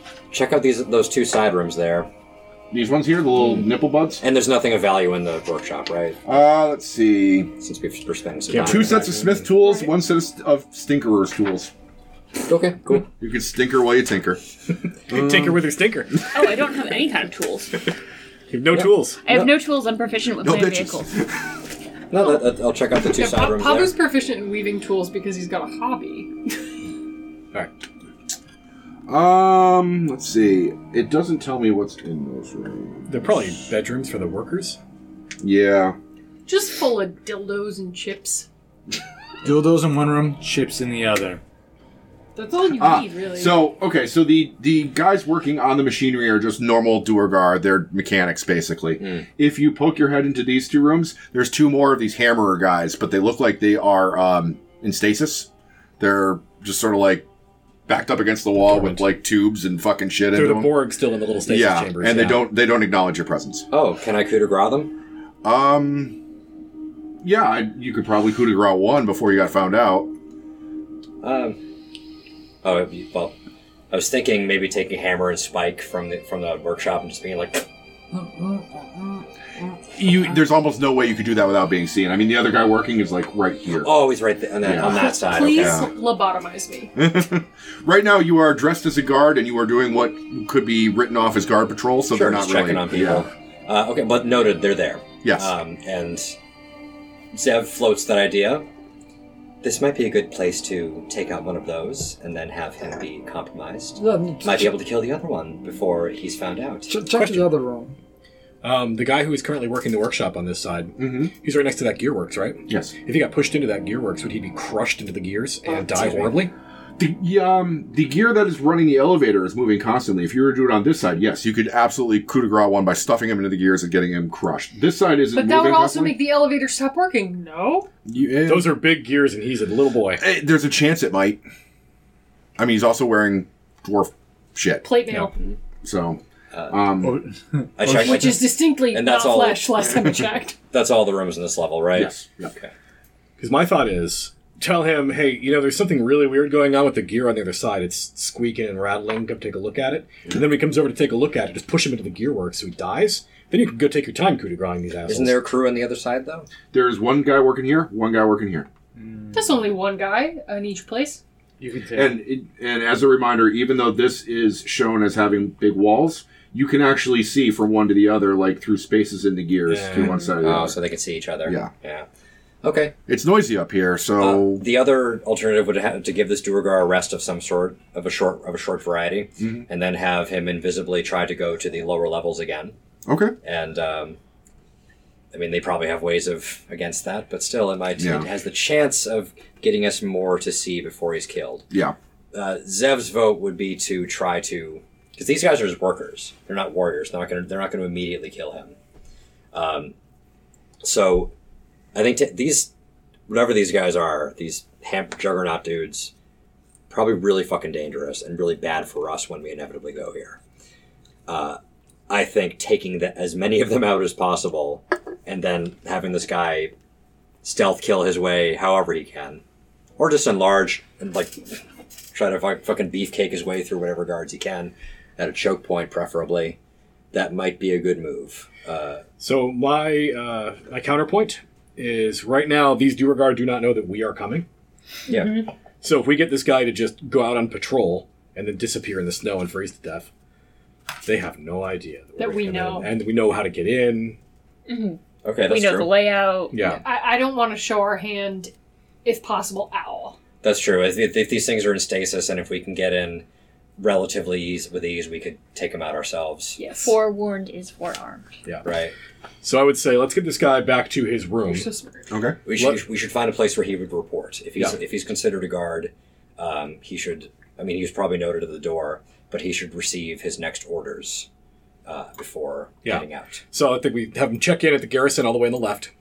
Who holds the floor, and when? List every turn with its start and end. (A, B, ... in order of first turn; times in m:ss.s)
0:00.3-0:02.1 A
0:02.7-0:04.2 B
0:04.2-0:06.2 A
0:06.2-0:07.5 B
0:07.6-0:09.2 A
0:08.5-0:09.5 C
0:08.6-0:11.7 B
0:12.4-0:13.1 A
0:13.1-0:14.4 B
0:15.1-0:16.2 C
0:15.1-0:15.6 B
0:16.3-0:17.8 D
0:18.5-0:19.2 C
0:18.7-0:19.5 A
0:19.2-0:21.1 D
0:20.4-0:21.3 B
0:22.1-0:24.0 A
0:22.2-0:26.3 E
0:29.1-0:33.4 B
0:33.1-0:34.8 C
0:35.4-0:36.0 B
0:36.4-0:38.5 E
0:39.4-0:41.4 F
0:42.4-0:43.6 E
0:42.8-0:55.5 B
0:56.0-0:57.3 B
0:57.9-1:00.7 B
0:58.7-0:59.1 C
1:00.3-1:02.5 C
1:01.4-1:03.7 B
1:03.7-1:04.9 A
1:05.4-1:06.2 B
1:07.2-1:10.1 B
1:11.2-1:11.6 A
1:12.6-1:13.3 A
1:13.9-1:17.7 A
1:18.1-1:19.8 G
1:19.9-1:23.9 B
1:23.8-1:25.9 A
1:24.6-1:25.9 B
1:24.8-1:26.9 E
1:26.9-1:33.3 B
1:32.1-1:36.4 A
1:35.2-1:35.5 B
1:37.3-1:38.7 A
1:39.6-1:46.9 A
1:44.0-1:44.7 G
1:46.9-1:48.0 G
1:47.1-1:47.5 C
1:48.6-1:56.5 C
1:51.0-1:51.3 B
1:52.7-1:52.9 B
1:55.7-1:56.4 A
1:57.0-2:06.2 B
2:05.3-2:07.9 E
2:08.1-2:08.8 B
2:08.4-2:10.2 C
2:10.2-2:11.4 B
2:12.6-2:14.9 B
2:14.8-2:15.3 E
2:15.8-2:17.2 B
2:16.5-2:16.8 A
2:17.0-2:18.3 F
2:17.8-2:20.0 A
2:17.8-2:20.6 E
2:20.7-2:22.7 A
2:21.9-2:22.5 B
2:23.4-2:35.4 C
2:35.1-2:36.5 A
2:36.7-2:38.7 B
2:39.0-2:39.7 F
2:39.3-2:41.2 E
2:41.6-2:42.2 F
2:41.9-2:50.8 B
2:49.7-2:50.2 C
2:50.0-2:50.3 D
2:50.4-2:52.1 A
2:51.4-2:51.7 B
2:52.6-2:52.9 A
2:53.1-2:54.7 B
2:54.2-3:02.8 A
2:59.4-2:59.7 B
3:03.1-3:03.3 B
3:03.4-3:04.2 A
3:05.3-3:11.7 A
3:08.0-3:08.3 B
3:11.7-3:12.0 B
3:12.3-3:18.8 A
3:19.5-3:19.9 A
3:20.8-3:21.3 A
3:21.9-3:22.7 A
3:23.3-3:26.1 A
3:26.9-3:30.4 A
3:31.3-3:36.7 A
3:37.4-3:39.4 A
3:40.0-3:41.6 A
3:42.1-3:46.6 A
3:47.1-3:49.0 A
3:49.2-3:54.5 C
3:55.1-3:55.4 A
3:55.1-3:55.5 D
3:55.8-4:00.1 C
4:01.0-4:04.2 C
4:02.2-4:02.9 E
4:04.7-4:06.6 D
4:05.2-4:06.0 A
4:06.5-4:06.8 C
4:06.8-4:08.5 E
4:09.0-4:10.2 E
4:10.4-4:13.2 A
4:13.8-4:16.6 A
4:16.6-4:17.0 E
4:16.8-4:18.3 D
4:18.6-4:18.9 A
4:19.4-4:21.7 C
4:21.4-4:22.1 E
4:22.1-4:22.4 B
4:22.5-4:31.3 A
4:22.5-4:22.8 C
4:31.9-4:33.4 A
4:32.8-4:35.9 C